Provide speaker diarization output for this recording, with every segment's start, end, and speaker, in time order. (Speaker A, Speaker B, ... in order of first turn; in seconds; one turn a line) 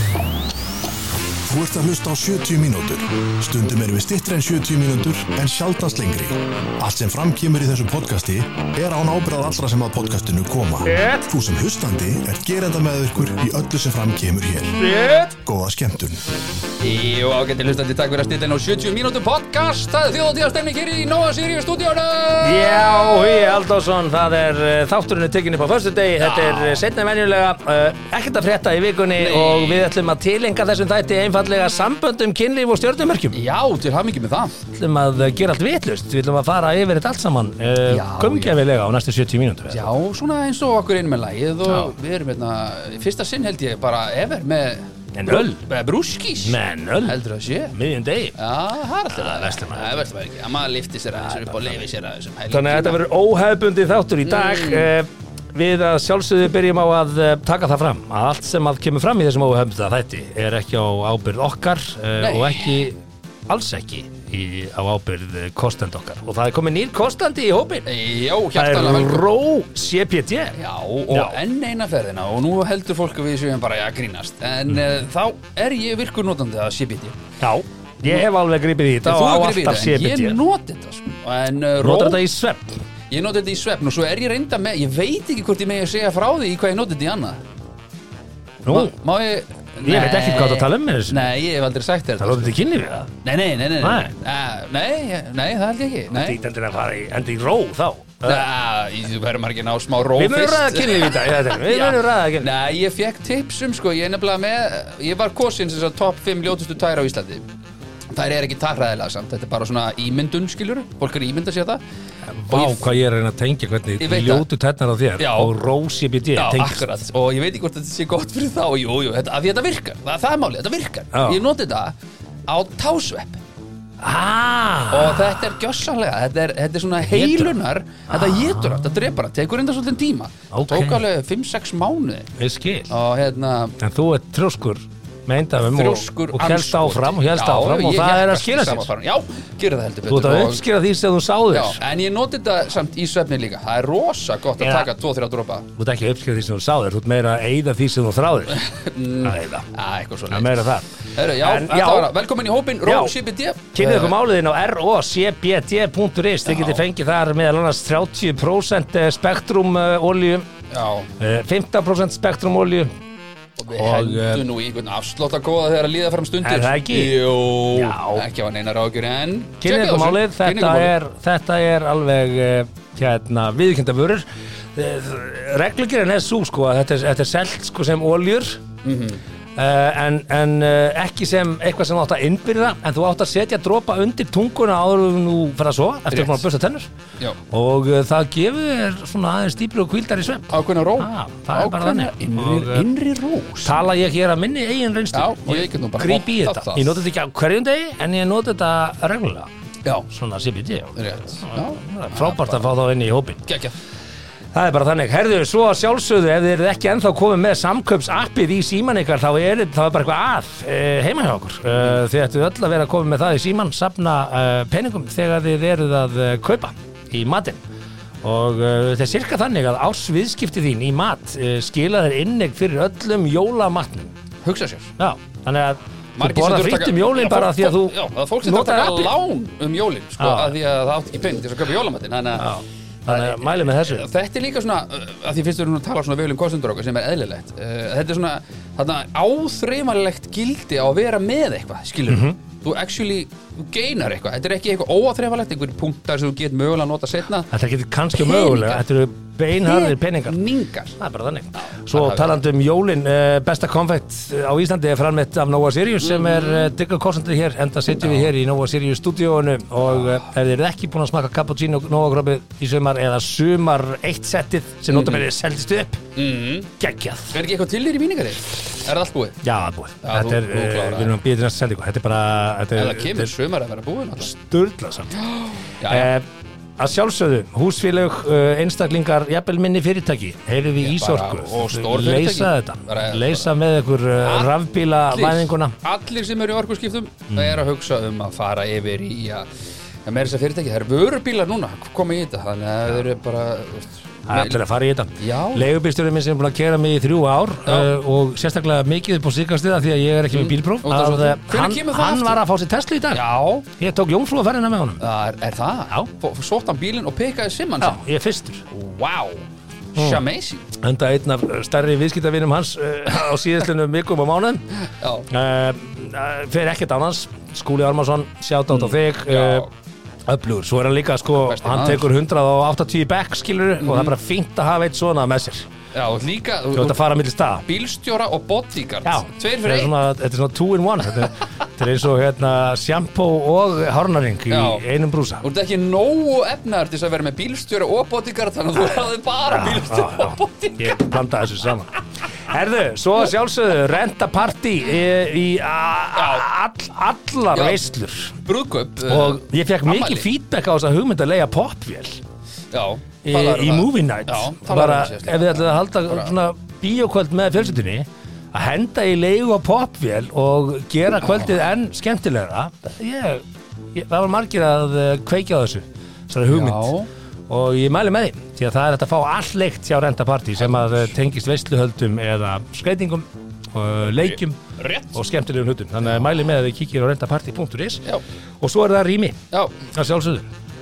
Speaker A: 1.4-14.8
Speaker B: 10.8-11.3
Speaker B: 14.8-15.4
Speaker A: 15.4-16.2
Speaker C: 16.8-23.5
Speaker B: 22.4-33.4
Speaker C: 26.2-26.8
Speaker C: 29.2-29.9
Speaker C: 33.3-34.6
Speaker B: 34.7-39.9
Speaker C: 37.9-38.6
Speaker C: 39.7-47.7
Speaker B: 41.7-41.9
Speaker B: 45.1-45.6
Speaker B: 46.4-47.2
Speaker B: 47.7-48.4
Speaker C: 48.4-53.0
Speaker B: 49.1-50.0
Speaker B: 51.2-51.9
Speaker B: 52.5-70.5
Speaker C: 54.2-54.9
Speaker C: 62.2-62.8
Speaker C: 67.8-69.2
Speaker C: 70.5-77.2
Speaker B: 71.1-71.4
Speaker B: 77.4-80.4
Speaker C: 79.0-82.2
Speaker B: 81.8-82.8
Speaker C: 83.1-87.4
Speaker B: 88.6-88.9
Speaker C: 88.7-92.5
Speaker B: 89.8-91.3
Speaker B: 92.2-93.1
Speaker C: 93.2-96.4
Speaker B: 93.8-94.1
Speaker B: 96.1-98.5
Speaker C: 98.2-107.4
Speaker B: 100.1-102.5
Speaker C: 108.1-111.8
Speaker B: 112.3-116.8
Speaker C: 112.5-112.9
Speaker C: 114.0-114.4
Speaker C: 115.2-115.5
Speaker C: 116.3-122.0
Speaker B: 121.1-121.4
Speaker C: 122.5-123.4
Speaker B: 124.0-125.5
Speaker C: 124.9-132.3
Speaker B: 127.0-127.5
Speaker B: 128.2-128.6
Speaker B: 130.5-131.0
Speaker B: 132.4-132.9
Speaker C: 132.9-133.8
Speaker B: 133.8-138.9
Speaker C: 135.6-140.6
Speaker B: 140.1-141.8
Speaker C: 141.5-145.7
Speaker B: 144.6-144.9
Speaker B: 145.8-148.7
Speaker C: 148.6-154.1
Speaker B: 149.2-149.7
Speaker B: 150.3-152.1
Speaker B: 152.8-153.1
Speaker B: 153.7-160.5
Speaker C: 156.4-156.8
Speaker C: 160.7-161.1
Speaker B: 161.2-162.9
Speaker C: 163.6-170.9
Speaker B: 163.7-164.4
Speaker B: 166.4-168.2
Speaker B: 169.6-178.6
Speaker C: 178.8-179.2
Speaker B: 179.6-186.9
Speaker C: 186.1-186.4
Speaker B: 187.5-192.9
Speaker C: 190.5-193.9
Speaker B: 193.6-199.5
Speaker C: 195.1-197.0
Speaker B: 200.1-203.4
Speaker C: 200.9-202.7
Speaker C: 203.4-203.7
Speaker B: 204.5-217.6
Speaker B: 218.2-224.1
Speaker C: 224.4-224.9
Speaker B: 225.0-229.1
Speaker C: 226.2-232.5
Speaker B: 230.2-230.6
Speaker B: 232.3-234.1
Speaker C: 233.1-247.5
Speaker B: 242.1-242.4
Speaker B: 247.5-250.4
Speaker C: 248.1-248.8
Speaker C: 249.6-251.0
Speaker B: 251.0-266.0
Speaker C: 251.5-252.4
Speaker C: 256.0-256.7
Speaker C: 258.0-258.3
Speaker C: 259.9-260.3
Speaker C: 264.9-265.2
Speaker C: 266.1-266.7
Speaker B: 266.8-267.4
Speaker C: 267.3-269.4
Speaker B: 269.4-273.3
Speaker C: 270.0-271.1
Speaker C: 272.8-274.3
Speaker B: 274.2-275.1
Speaker C: 275.1-276.1
Speaker B: 275.9-276.2
Speaker B: 276.8-285.7
Speaker C: 280.8-283.5
Speaker C: 284.2-284.5
Speaker C: 285.1-289.5
Speaker B: 287.3-287.6
Speaker C: 290.0-294.6
Speaker B: 294.3-303.2
Speaker C: 295.2-295.7
Speaker C: 297.7-297.9
Speaker C: 300.3-302.4
Speaker C: 303.1-303.7
Speaker B: 303.7-305.0
Speaker C: 305.0-308.0
Speaker B: 307.8-308.6
Speaker C: 308.7-310.6
Speaker B: 309.9-310.2
Speaker B: 310.8-314.7
Speaker C: 314.9-315.3
Speaker B: 315.3-319.7
Speaker C: 318.7-319.7
Speaker B: 320.2-325.7
Speaker C: 321.4-322.1
Speaker C: 323.8-324.1
Speaker C: 325.9-327.0
Speaker B: 326.7-327.6
Speaker C: 327.6-330.0
Speaker B: 329.0-335.4
Speaker C: 334.5-334.8
Speaker C: 335.4-341.1
Speaker B: 339.5-348.4
Speaker C: 346.1-346.5
Speaker C: 347.5-347.8
Speaker C: 348.4-350.3
Speaker B: 349.1-352.2
Speaker C: 352.7-356.3
Speaker B: 353.2-366.9
Speaker C: 361.2-361.6
Speaker C: 366.5-367.1
Speaker B: 367.5-374.6
Speaker C: 370.6-371.1
Speaker C: 374.2-375.1
Speaker B: 375.1-378.0
Speaker C: 376.0-376.3
Speaker B: 378.6-379.4
Speaker B: 379.9-380.5